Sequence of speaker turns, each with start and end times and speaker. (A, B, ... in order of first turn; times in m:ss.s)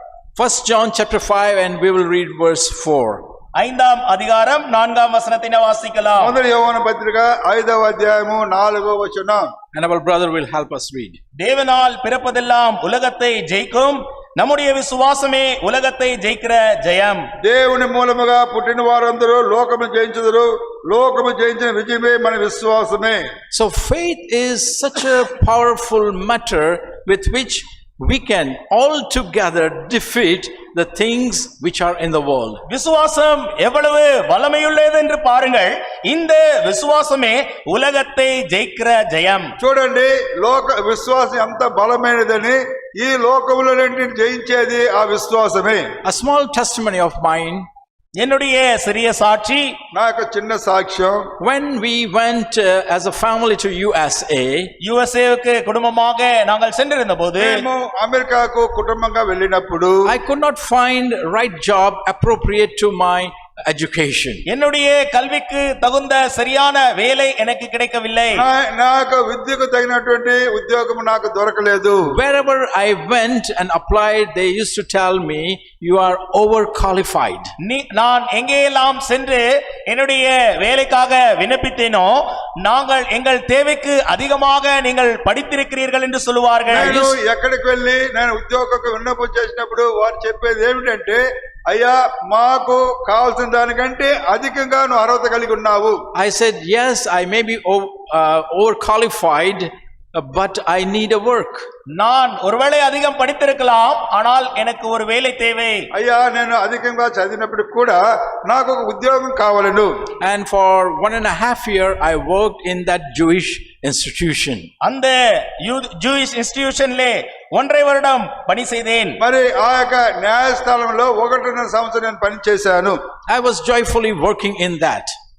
0:00.4-0:03.2 A
0:03.5-0:06.4 B
0:06.2-0:09.5 C
0:09.7-0:11.2 A
0:11.4-0:17.2 B
0:17.4-0:23.2 C
0:23.5-0:32.6 A
0:32.7-0:39.5 B
0:39.6-0:45.8 C
0:46.0-0:47.7 A
0:48.2-0:49.8 B
0:49.9-0:51.2 C
0:51.4-0:54.7 A
0:54.8-0:57.6 B
0:57.4-1:00.1 C
1:00.0-1:04.4 A
1:04.5-1:08.4 B
1:08.4-1:12.1 C
1:12.1-1:17.5 A
1:17.6-1:27.0 B
1:26.7-1:36.0 C
1:26.7-1:27.2 A
1:36.1-1:41.6 A
1:42.0-1:45.9 B
1:45.9-1:49.9 C
1:50.2-1:54.7 A
1:54.8-1:59.2 B
1:59.2-2:03.0 C
2:03.3-2:05.1 A